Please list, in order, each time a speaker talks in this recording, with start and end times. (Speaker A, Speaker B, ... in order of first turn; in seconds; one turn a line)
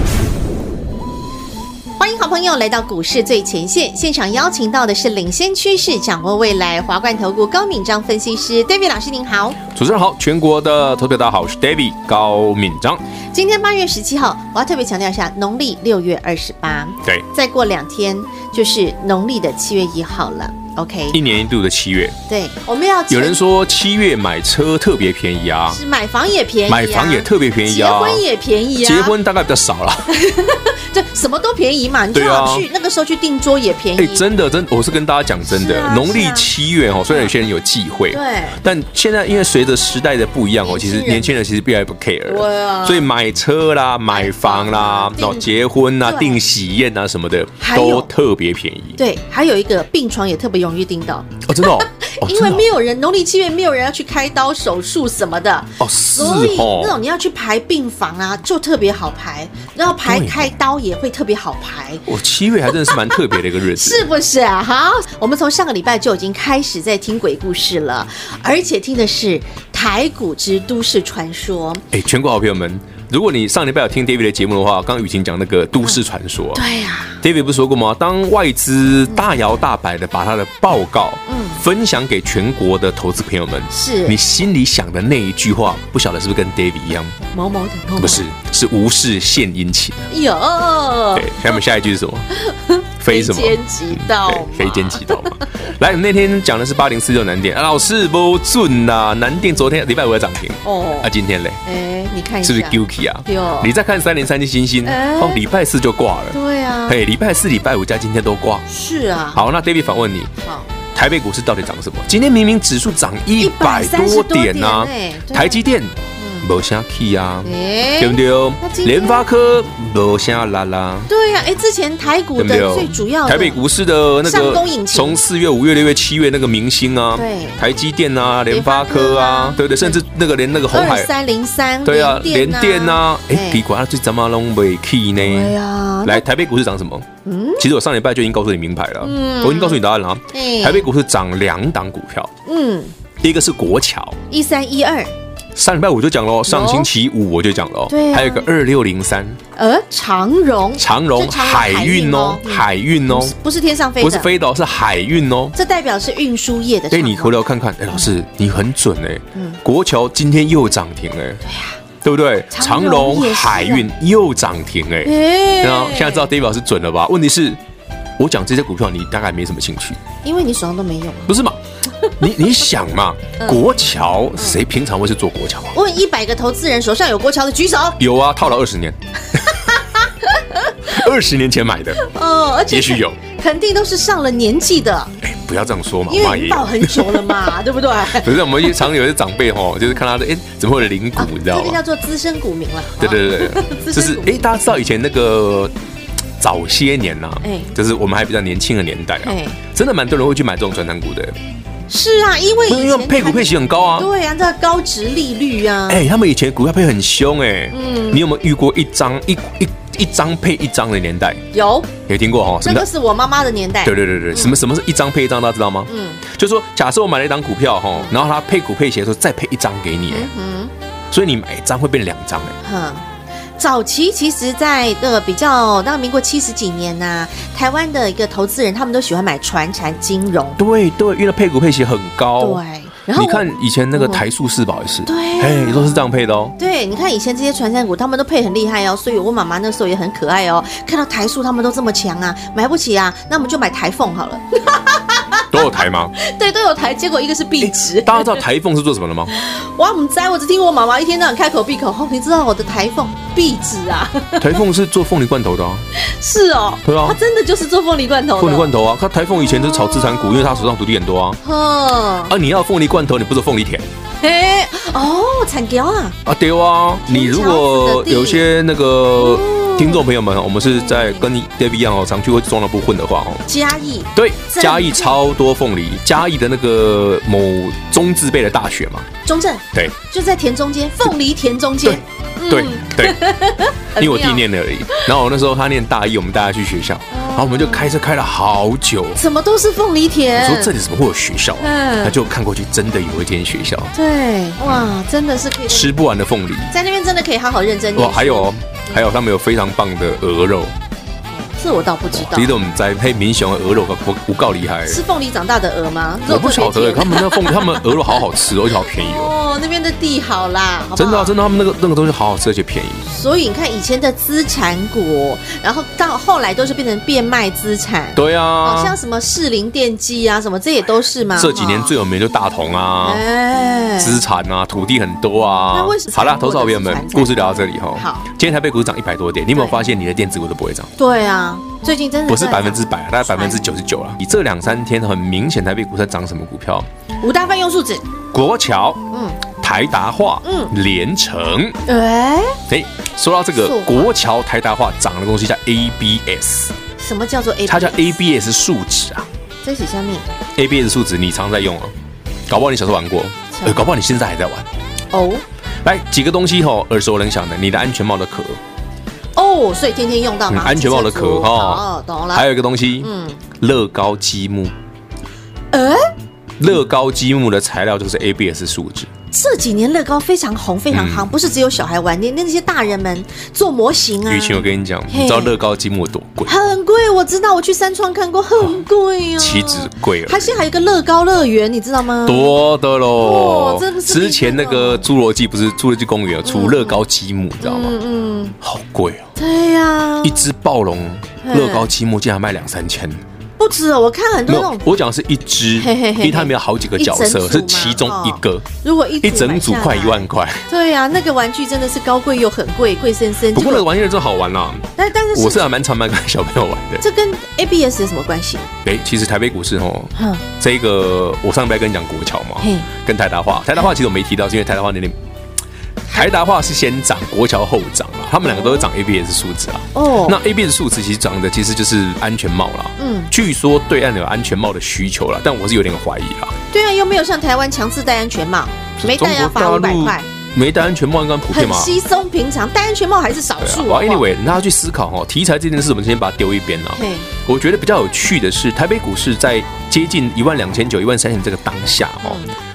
Speaker A: 2.0-9.6
Speaker B: 9.7-13.0
Speaker A: 13.3-21.2
Speaker B: 21.1-22.2
Speaker A: 22.3-23.4
Speaker B: 23.1-25.8
Speaker A: 25.7-29.1
Speaker B: 26.7-28.2
Speaker B: 28.8-30.1
Speaker A: 30.1-34.2
Speaker B: 32.1-32.6
Speaker B: 34.0-49.0
Speaker A: 35.5-36.5
Speaker A: 38.1-38.6
Speaker A: 40.6-41.3
Speaker A: 42.3-43.1
Speaker A: 44.1-45.5
Speaker A: 46.0-46.4
Speaker A: 47.6-48.1
Speaker A: 49.0-62.0
Speaker B: 51.4-52.7
Speaker B: 55.8-57.0
Speaker B: 60.0-60.5
Speaker B: 62.0-64.0
Speaker A: 62.8-71.8
Speaker B: 71.9-76.6
Speaker A: 76.5-77.2
Speaker B: 77.2-87.2
Speaker A: 81.3-81.6
Speaker A: 83.7-84.2
Speaker A: 87.3-88.2
Speaker B: 88.0-90.1
Speaker A: 90.1-91.6
Speaker B: 91.1-92.3
Speaker A: 92.3-95.4
Speaker B: 93.0-101.6
Speaker A: 100.6-101.1
Speaker A: 101.6-103.7
Speaker B: 102.4-108.7
Speaker A: 104.8-105.4
Speaker A: 106.3-107.0
Speaker A: 108.7-109.4
Speaker B: 109.3-110.3
Speaker A: 110.4-110.7
Speaker B: 110.9-121.1
Speaker A: 113.4-115.6
Speaker A: 116.2-116.5
Speaker A: 117.4-119.2
Speaker A: 121.1-123.6
Speaker B: 122.4-131.1
Speaker A: 124.2-125.2
Speaker A: 127.1-127.6
Speaker A: 128.5-130.0
Speaker A: 130.7-133.6
Speaker B: 131.8-137.1
Speaker A: 135.2-136.2
Speaker A: 137.2-137.7
Speaker B: 137.6-142.3
Speaker A: 139.0-139.8
Speaker A: 140.3-140.9
Speaker A: 142.4-142.9
Speaker B: 143.2-144.2
Speaker A: 144.3-145.1
Speaker B: 145.5-149.4
Speaker A: 146.4-146.9
Speaker A: 147.9-148.4
Speaker A: 149.5-154.3
Speaker B: 150.8-153.3
Speaker B: 154.0-155.5
Speaker A: 155.5-157.4
Speaker B: 156.9-161.4
Speaker A: 159.3-159.6
Speaker A: 161.4-161.8
Speaker B: 162.0-167.6
Speaker A: 162.5-163.9
Speaker A: 165.0-166.3
Speaker B: 168.2-170.0
Speaker A: 170.2-171.3
Speaker B: 171.3-171.6
Speaker B: 172.2-175.8
Speaker A: 173.4-173.7
Speaker A: 174.4-174.6
Speaker A: 175.7-178.0
Speaker B: 178.0-179.0
Speaker A: 180.3-180.7
Speaker B: 180.8-182.1
Speaker A: 182.0-185.2
Speaker B: 182.7-183.2
Speaker B: 185.2-187.4
Speaker A: 186.1-188.4
Speaker B: 188.1-191.8
Speaker A: 191.2-194.5
Speaker B: 193.0-195.7
Speaker B: 196.4-201.3
Speaker A: 197.4-197.7
Speaker A: 199.2-199.6
Speaker A: 201.9-206.0
Speaker B: 202.7-204.1
Speaker B: 205.9-211.4
Speaker A: 207.7-208.2
Speaker A: 211.5-211.9
Speaker B: 212.1-212.9
Speaker A: 212.6-214.6
Speaker B: 213.8-220.3
Speaker A: 215.9-216.2
Speaker A: 220.1-220.7
Speaker B: 221.1-222.6
Speaker A: 222.6-223.0
Speaker A: 223.6-230.6
Speaker B: 230.6-232.6
Speaker A: 232.4-233.4
Speaker B: 233.1-236.5
Speaker A: 233.9-234.2
Speaker A: 235.1-236.1
Speaker A: 236.6-245.6
Speaker B: 245.5-246.1
Speaker A: 246.2-248.4
Speaker B: 247.6-249.3
Speaker A: 249.4-254.6
Speaker B: 254.4-255.8
Speaker A: 256.0-258.7
Speaker B: 256.8-257.2
Speaker B: 258.4-261.4
Speaker A: 259.7-260.4
Speaker A: 261.4-262.3
Speaker B: 262.3-263.9
Speaker A: 264.2-266.2
Speaker B: 266.2-273.4
Speaker A: 267.1-268.4
Speaker A: 269.1-270.0
Speaker A: 270.6-271.2
Speaker A: 273.4-275.2
Speaker B: 274.1-279.1
Speaker A: 279.2-285.1
Speaker B: 281.8-283.2
Speaker B: 283.9-289.2
Speaker A: 287.1-287.9
Speaker A: 289.1-290.7
Speaker B: 290.3-293.9
Speaker A: 291.6-292.2
Speaker A: 293.9-295.9
Speaker B: 295.7-296.7
Speaker A: 296.7-299.0
Speaker B: 297.9-300.7
Speaker A: 301.3-302.5
Speaker B: 302.1-305.0
Speaker A: 304.9-308.2
Speaker B: 306.2-309.3
Speaker A: 308.9-311.4
Speaker B: 310.9-313.0
Speaker A: 313.0-321.9
Speaker B: 318.1-318.9
Speaker B: 321.3-323.2
Speaker A: 323.0-324.2
Speaker B: 324.0-330.9
Speaker A: 325.7-328.2
Speaker A: 331.0-333.6
Speaker B: 332.3-336.9
Speaker A: 337.2-338.1
Speaker B: 338.3-341.8
Speaker A: 339.1-339.4
Speaker A: 340.4-340.7
Speaker A: 341.9-342.6
Speaker B: 342.7-346.7
Speaker A: 343.6-344.1
Speaker A: 347.0-348.1
Speaker B: 347.7-349.3
Speaker A: 349.6-350.3
Speaker B: 350.6-351.9
Speaker B: 352.5-354.7
Speaker A: 353.5-353.9
Speaker A: 355.1-355.4
Speaker B: 355.8-358.6
Speaker A: 359.4-362.4
Speaker B: 360.5-364.7
Speaker A: 363.0-363.4
Speaker A: 365.7-366.1
Speaker B: 366.6-369.1
Speaker A: 369.3-375.5
Speaker B: 370.9-371.3
Speaker B: 374.2-376.6
Speaker A: 376.5-382.6
Speaker B: 379.4-380.6
Speaker B: 382.2-387.9
Speaker A: 383.2-385.1
Speaker A: 386.4-387.0
Speaker A: 387.6-388.6
Speaker B: 388.6-389.3
Speaker A: 389.4-390.4
Speaker B: 390.2-393.2
Speaker A: 391.4-391.9
Speaker A: 393.6-394.8
Speaker B: 394.5-398.7
Speaker A: 395.8-403.9
Speaker B: 399.2-400.6
Speaker B: 403.5-407.0
Speaker A: 405.0-405.7
Speaker A: 407.0-408.7
Speaker B: 408.8-415.1
Speaker A: 410.1-410.4
Speaker A: 412.6-412.9
Speaker B: 416.1-426.5
Speaker A: 418.4-418.9
Speaker A: 419.9-420.4
Speaker A: 423.0-423.3
Speaker A: 426.7-430.2
Speaker B: 429.0-431.9
Speaker A: 431.5-434.5
Speaker B: 433.6-442.4
Speaker A: 436.9-437.3
Speaker A: 442.2-442.5